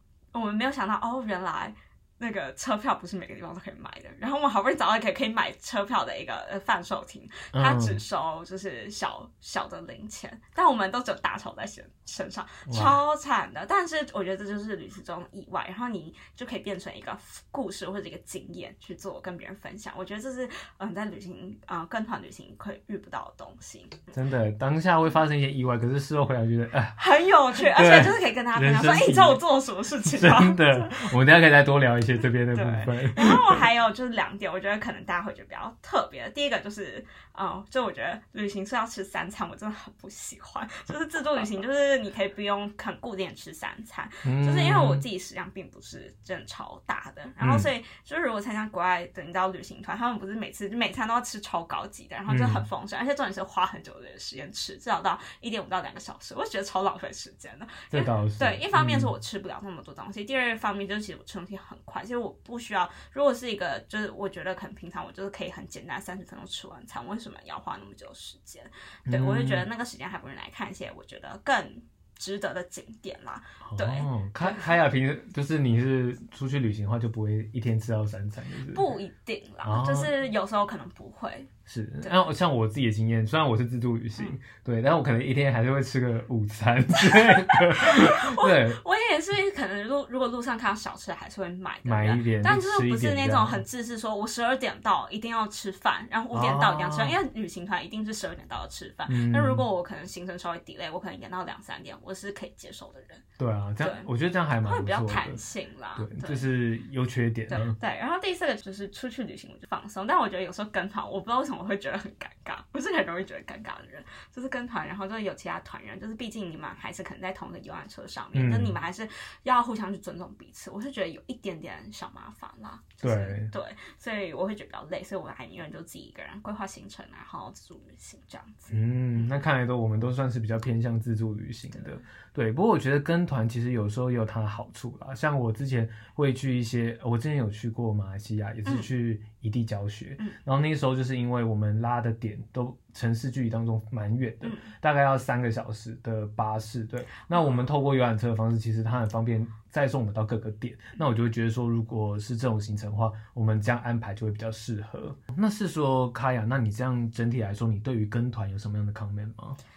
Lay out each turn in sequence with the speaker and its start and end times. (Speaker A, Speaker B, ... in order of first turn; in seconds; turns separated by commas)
Speaker A: 0.3-24.1, Speaker B: 7.5-8.0, Speaker B: 12.7-13.0, Speaker B: 24.1-26.9, Speaker A: 26.9-31.1, Speaker B: 27.6-29.4, Speaker B: 30.0-33.6, Speaker A: 32.5-74.7, Speaker B: 44.2-45.0, Speaker B: 47.4-47.7, Speaker B: 52.3-52.6, Speaker B: 57.9-59.1, Speaker B: 69.0-69.6, Speaker B: 73.6-78.8, Speaker A: 78.7-81.5, Speaker B: 79.6-80.1, Speaker B: 81.7-88.8, Speaker A: 82.0-82.3, Speaker A: 87.0-103.2, Speaker B: 91.8-93.6, Speaker B: 96.3-97.2, Speaker B: 99.1-99.6, Speaker B: 103.4-105.4, Speaker A: 103.8-104.1, Speaker A: 104.6-106.5, Speaker B: 106.0-107.7, Speaker A: 107.5-129.3, Speaker B: 118.3-118.8, Speaker B: 123.0-123.5, Speaker B: 128.7-159.6, Speaker A: 131.7-132.0, Speaker A: 144.4-144.7, Speaker A: 147.3-147.6